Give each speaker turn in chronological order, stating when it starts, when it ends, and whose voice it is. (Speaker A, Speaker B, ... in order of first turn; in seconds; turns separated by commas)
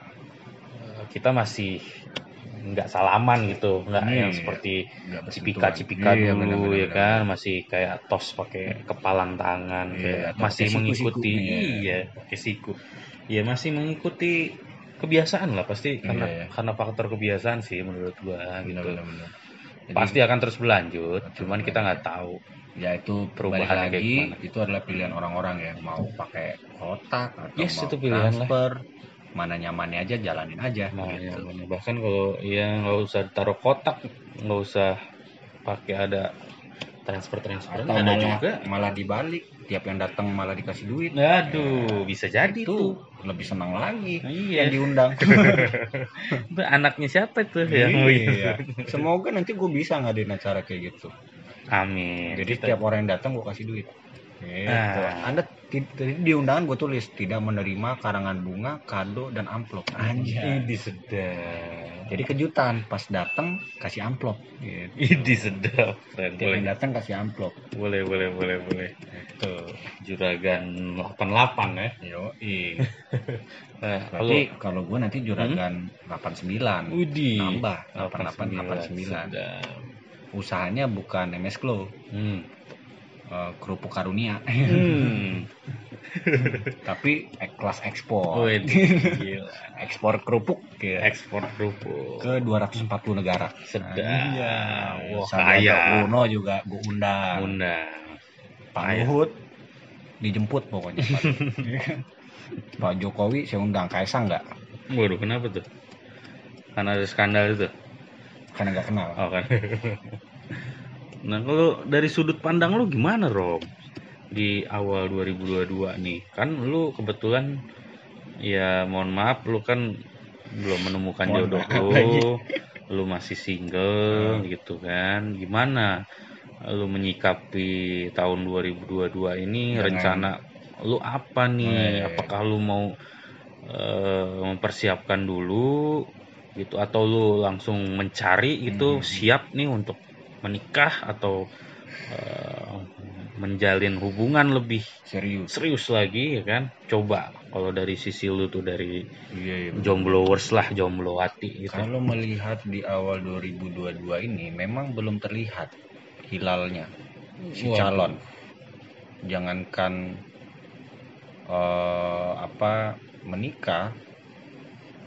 Speaker A: 0.8-12.8, Speaker B: 4.0-7.2, Speaker B: 9.9-11.8, Speaker A: 13.3-19.0, Speaker B: 16.0-16.5, Speaker B: 18.6-19.3, Speaker B: 19.9-20.2, Speaker A: 19.9-22.4, Speaker B: 21.2-22.0, Speaker B: 22.8-28.8, Speaker A: 23.4-24.4, Speaker A: 24.9-25.2, Speaker A: 27.6-28.5, Speaker B: 29.4-31.4, Speaker A: 30.9-35.0, Speaker A: 35.6-36.3, Speaker A: 37.0-38.6, Speaker B: 37.7-45.7, Speaker A: 41.1-43.0, Speaker A: 44.2-48.9, Speaker B: 47.7-51.1, Speaker A: 51.7-52.8, Speaker B: 52.3-60.7, Speaker A: 54.7-55.4, Speaker A: 60.0-62.3, Speaker B: 62.1-65.5, Speaker A: 65.0-66.7, Speaker B: 66.4-67.5, Speaker A: 67.7-68.9, Speaker B: 69.1-69.8, Speaker A: 70.0-71.9, Speaker B: 72.0-72.9, Speaker A: 72.8-74.5, Speaker B: 74.0-79.3, Speaker A: 76.9-79.9, Speaker B: 80.3-81.9, Speaker A: 82.1-82.5, Speaker B: 83.3-85.2, Speaker A: 84.7-85.5, Speaker A: 86.0-86.8, Speaker B: 86.4-91.2, Speaker A: 88.3-89.8, Speaker A: 91.0-92.3, Speaker B: 92.2-97.5, Speaker A: 93.7-96.2, Speaker A: 97.4-98.2, Speaker B: 98.8-99.4, Speaker A: 98.8-99.1, Speaker B: 100.2-102.0, Speaker A: 101.0-101.6, Speaker B: 102.8-104.5, Speaker A: 104.9-105.7, Speaker A: 106.8-107.7, Speaker B: 108.5-109.2, Speaker A: 109.2-110.2, Speaker A: 111.2-113.7, Speaker A: 114.3-117.5, Speaker A: 118.5-119.8, Speaker A: 120.5-122.4, Speaker B: 121.3-122.3, Speaker A: 122.9-126.0, Speaker B: 124.1-124.4, Speaker A: 126.7-132.9, Speaker B: 129.8-130.3, Speaker B: 131.6-132.3, Speaker A: 133.7-136.0, Speaker A: 136.6-141.4, Speaker B: 138.7-139.3, Speaker A: 142.1-144.9, Speaker B: 145.1-145.5, Speaker A: 145.5-149.1, Speaker B: 149.3-150.3, Speaker A: 149.8-151.9, Speaker B: 151.7-155.7, Speaker B: 156.3-156.9, Speaker A: 157.4-158.2, Speaker B: 157.5-158.2, Speaker B: 159.3-160.0, Speaker B: 161.5-163.9